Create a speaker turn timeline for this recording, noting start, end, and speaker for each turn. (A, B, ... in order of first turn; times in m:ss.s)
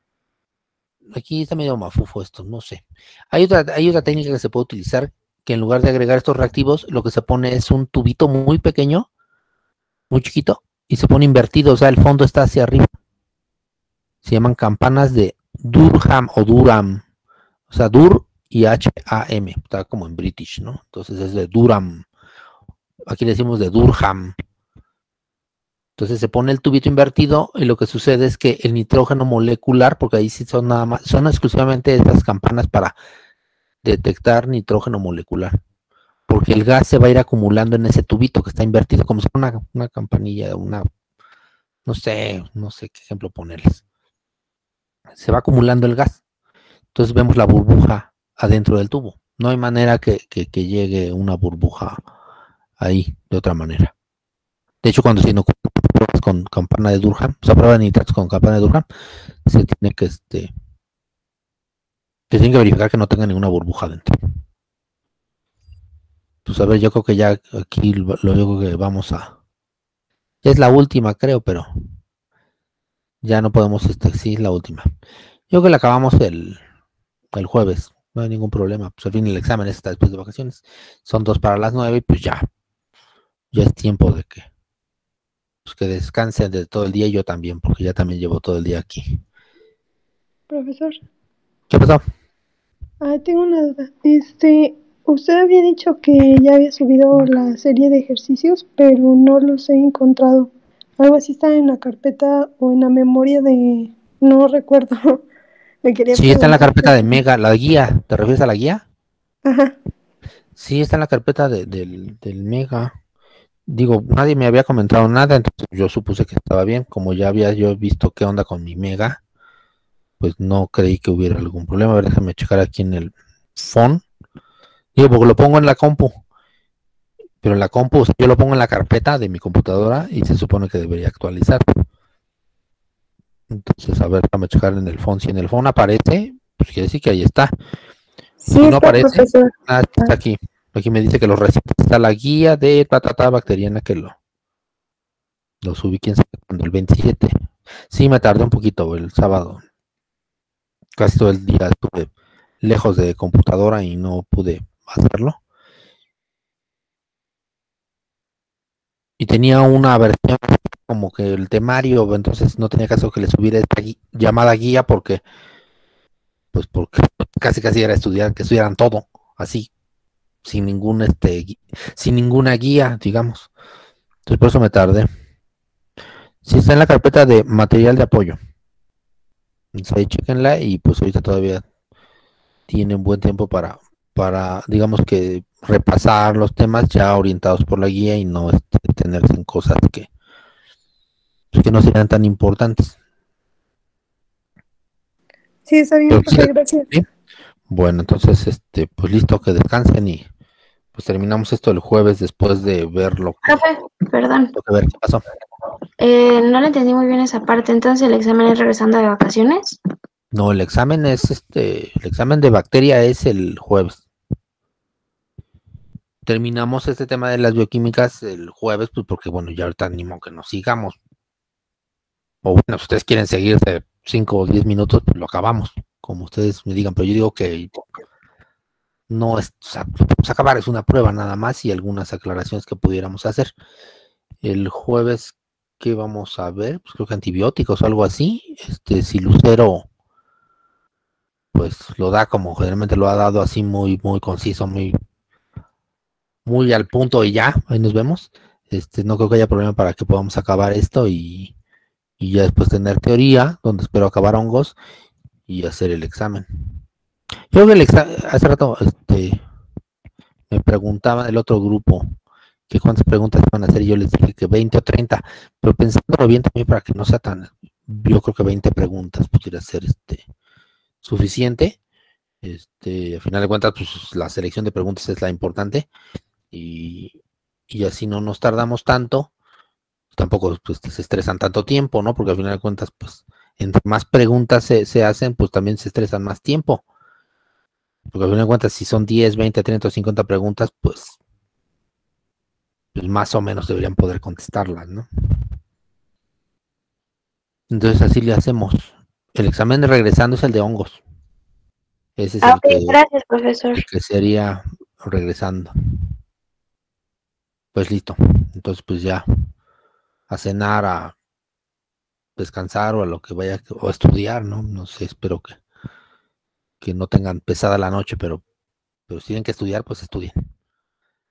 0:01.1-0:09.1 A
0:10.1-0:12.9 A
0:14.2-0:17.0 A
0:17.7-0:22.0 A
0:23.1-0:24.3 A
0:26.0-0:32.9 A
0:33.8-0:35.6 A
0:36.3-0:40.9 A
0:41.8-0:43.8 A
0:45.2-0:46.2 A
0:46.9-0:52.0 A
0:52.8-0:53.9 A
0:54.8-0:58.8 A
0:59.4-1:00.5 A
1:02.3-1:04.1 A
1:06.4-1:09.3 A
1:10.4-1:11.7 A
1:13.2-1:14.9 A
1:15.5-1:16.6 A
1:17.3-1:22.4 A
1:23.5-1:24.5 A
1:25.6-1:29.2 A
1:30.5-1:31.0 B
1:31.7-1:32.0 A
1:33.0-1:45.2 B
1:45.8-1:47.2 B
1:46.1-1:48.8 A
1:49.4-1:49.8 B
1:50.6-1:52.9 A
1:53.7-1:59.2 A
2:00.2-2:04.0 A
2:04.9-2:06.2 A
2:07.4-2:11.6 A
2:13.5-2:17.5 A
2:18.4-2:20.1 C
2:18.6-2:24.2 A
2:25.6-2:27.3 A
2:27.9-2:29.6 A
2:31.0-2:32.1 A
2:32.6-2:35.4 A
2:39.2-2:45.2 A
2:46.5-2:49.7 A
2:50.4-2:53.5 A
2:54.2-2:55.1 A
2:56.4-2:58.4 A
2:59.7-3:01.6 A
3:02.7-3:10.1 A
3:11.5-3:13.0 A
3:15.6-3:16.9 B
3:16.1-3:17.0 A
3:17.7-3:20.3 A
3:20.9-3:23.6 A
3:23.4-3:24.5 C
3:24.5-3:25.2 A
3:26.0-3:29.8 C
3:30.3-3:34.0 A
3:36.2-3:41.0 A
3:42.4-3:47.9 A
3:49.1-3:53.5 A
3:54.4-3:59.9 A
4:01.5-4:04.9 A
4:06.4-4:11.5 A
4:12.2-4:14.7 A
4:15.5-4:16.5 A
4:17.5-4:19.4 A
4:20.5-4:22.1 A
4:22.7-4:30.2 A
4:31.0-4:31.8 A
4:32.4-4:35.9 A
4:36.5-4:37.2 A
4:37.7-4:39.3 A
4:40.1-4:46.8 A
4:48.1-4:51.2 A
4:52.9-4:55.1 A
4:57.7-5:01.0 A
5:02.2-5:03.0 A
5:02.4-5:03.8 C
5:03.7-5:05.7 A
5:07.7-5:09.2 A
5:10.3-5:11.1 A
5:12.4-5:15.6 A
5:16.8-5:18.4 A
5:19.1-5:20.3 A